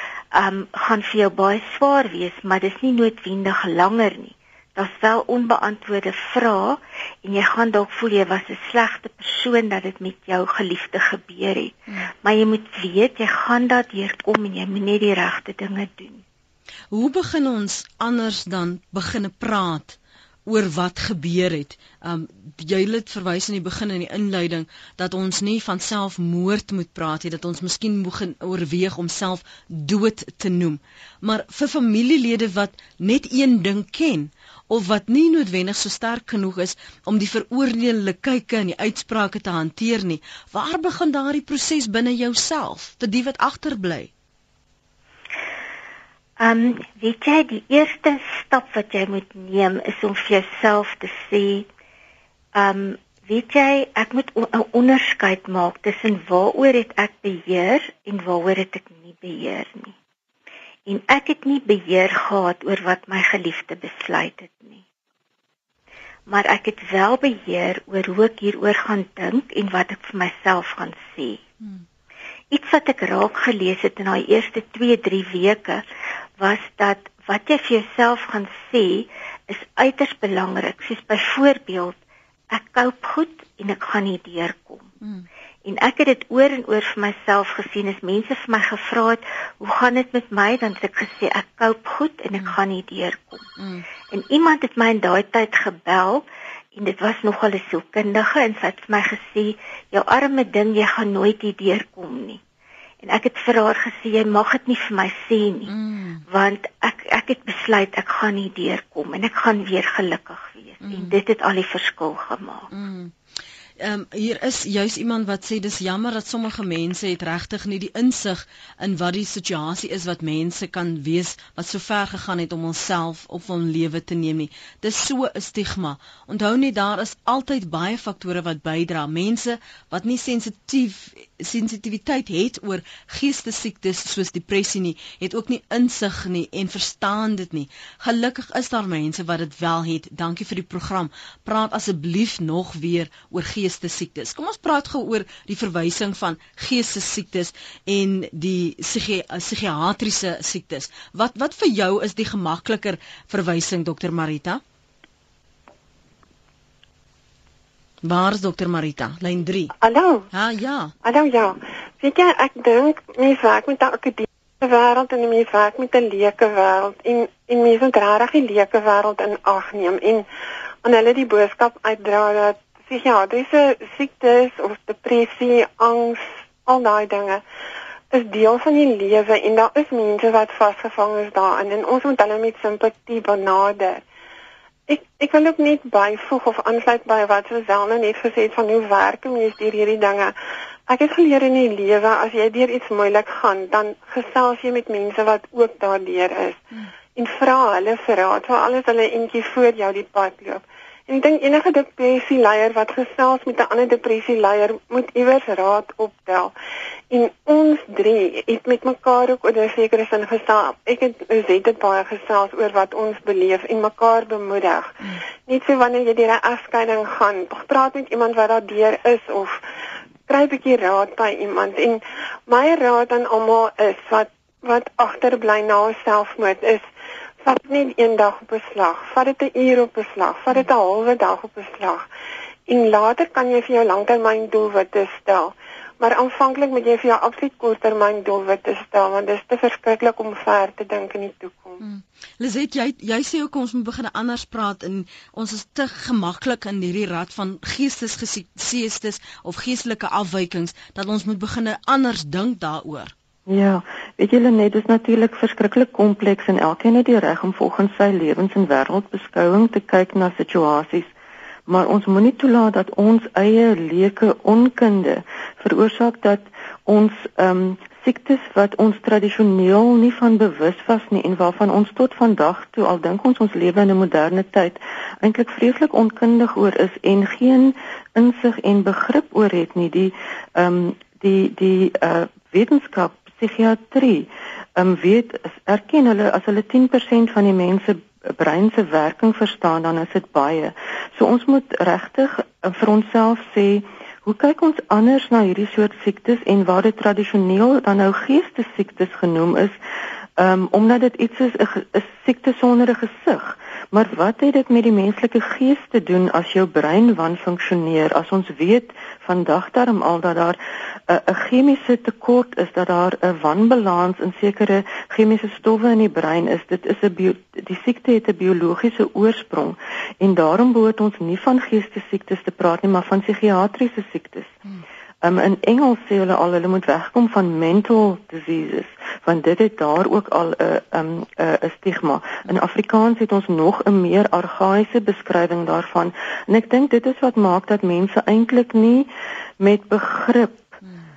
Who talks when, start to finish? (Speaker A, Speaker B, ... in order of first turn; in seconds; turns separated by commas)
Speaker A: 0.3-16.2, Speaker B: 16.9-44.1, Speaker A: 46.4-51.7, Speaker A: 52.5-59.9, Speaker A: 60.9-64.8, Speaker A: 66.3-71.4, Speaker A: 72.5-75.8, Speaker A: 76.4-82.0, Speaker A: 82.5-84.9, Speaker A: 85.6-93.5, Speaker B: 93.6-93.8, Speaker A: 94.1-102.4, Speaker A: 103.0-105.7, Speaker B: 105.7-106.2, Speaker A: 106.3-112.7, Speaker B: 110.8-111.2, Speaker B: 112.7-113.1, Speaker B: 113.8-154.6, Speaker B: 158.0-159.7, Speaker C: 159.8-160.3, Speaker B: 160.3-160.9, Speaker C: 161.0-170.2, Speaker C: 170.8-177.4, Speaker C: 178.1-184.0, Speaker C: 184.9-190.3, Speaker C: 190.9-196.6, Speaker C: 197.1-206.5, Speaker C: 207.1-219.6, Speaker C: 220.3-226.8, Speaker C: 227.4-232.1, Speaker C: 232.7-241.8, Speaker B: 241.8-253.1, Speaker D: 253.5-261.1, Speaker D: 261.7-299.8, Speaker D: 300.4-324.6, Speaker D: 325.2-340.7